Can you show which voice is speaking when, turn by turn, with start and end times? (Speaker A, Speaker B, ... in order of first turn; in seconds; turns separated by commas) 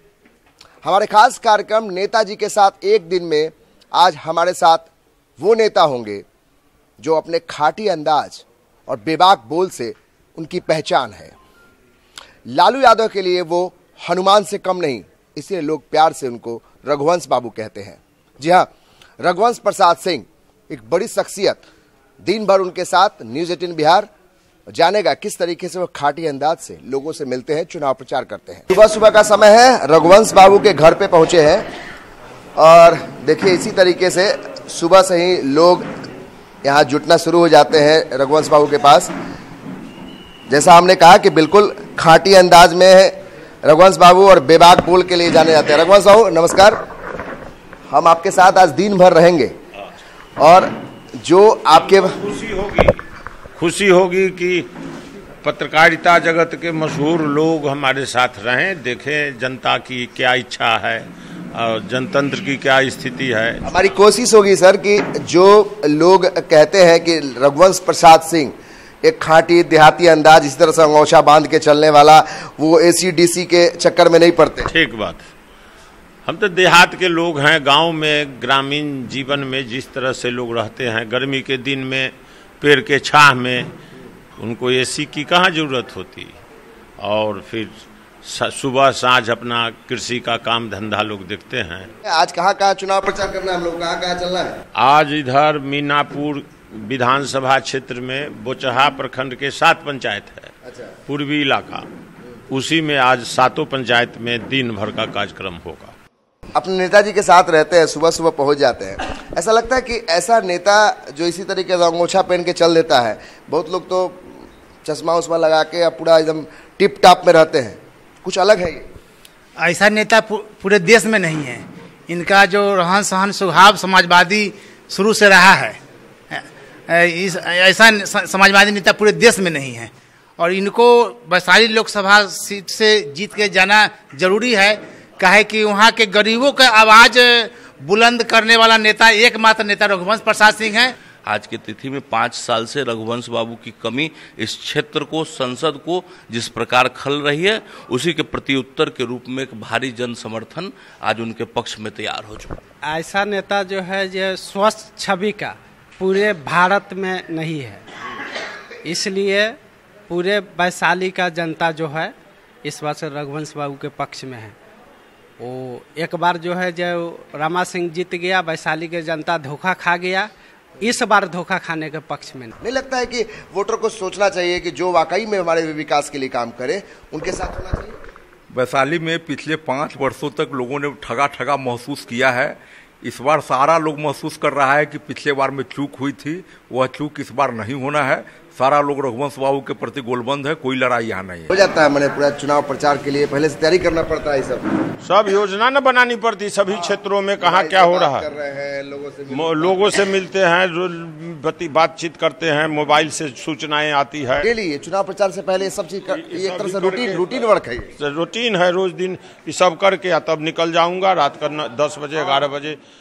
Speaker A: 0.8-6.2, Speaker A: 7.0-11.3, Speaker A: 12.5-18.7, Speaker A: 19.2-21.7, Speaker A: 22.2-24.1, Speaker A: 24.7-31.7, Speaker A: 32.6-35.9, Speaker A: 36.6-39.1, Speaker A: 40.5-46.8, Speaker A: 47.9-49.5, Speaker A: 50.4-52.2, Speaker B: 51.7-53.0, Speaker B: 53.6-54.7, Speaker B: 55.4-63.6, Speaker A: 63.6-74.7, Speaker B: 74.7-75.3, Speaker B: 76.3-83.7, Speaker B: 84.4-86.3, Speaker B: 87.0-91.9, Speaker A: 92.0-94.6, Speaker B: 94.8-100.5, Speaker A: 100.7-100.9, Speaker B: 101.1-101.8, Speaker B: 102.5-106.0, Speaker A: 106.5-118.8, Speaker C: 119.6-125.8, Speaker C: 126.9-140.9, Speaker D: 141.2-152.6, Speaker E: 152.8-157.8, Speaker E: 158.8-159.6, Speaker E: 160.1-162.1, Speaker E: 162.7-164.6, Speaker E: 165.4-170.3, Speaker E: 170.8-172.5, Speaker A: 172.6-178.0, Speaker F: 178.5-191.5, Speaker A: 191.5-194.7, Speaker B: 195.0-198.3, Speaker A: 197.4-199.9, Speaker B: 199.3-204.5, Speaker A: 204.4-207.9, Speaker B: 206.1-207.4, Speaker B: 208.0-212.8